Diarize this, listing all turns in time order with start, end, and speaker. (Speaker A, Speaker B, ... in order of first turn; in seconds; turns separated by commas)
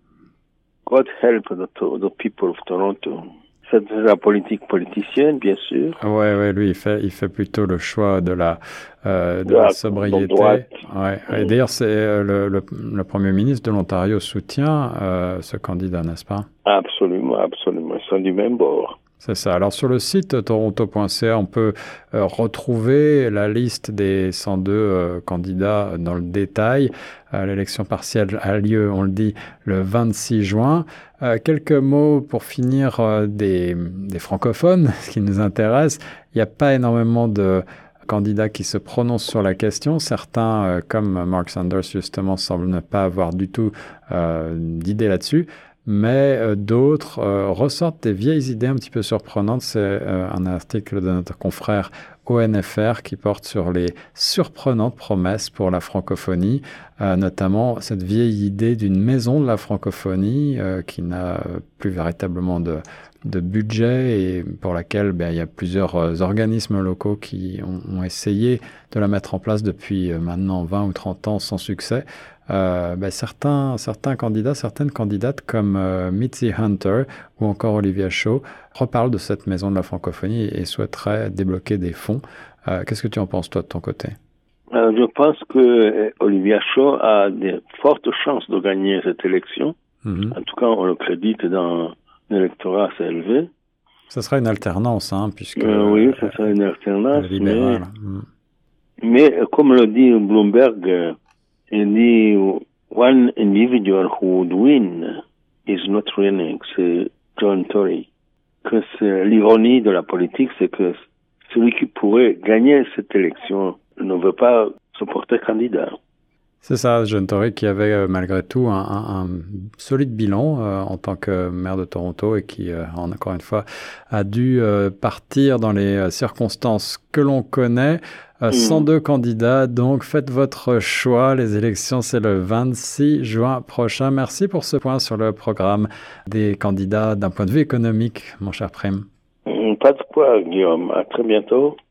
Speaker A: 0.8-6.0, Speaker B: 6.0-16.5, Speaker A: 9.5-11.5, Speaker A: 16.6-19.0, Speaker B: 19.1-84.2, Speaker A: 84.7-89.8, Speaker B: 90.0-90.4, Speaker A: 90.3-93.5, Speaker B: 94.1-96.6, Speaker A: 95.6-97.8, Speaker B: 97.1-98.3, Speaker A: 99.0-101.2, Speaker A: 101.7-108.1, Speaker A: 108.6-115.9, Speaker B: 116.6-139.1, Speaker A: 128.5-128.9, Speaker A: 139.5-141.8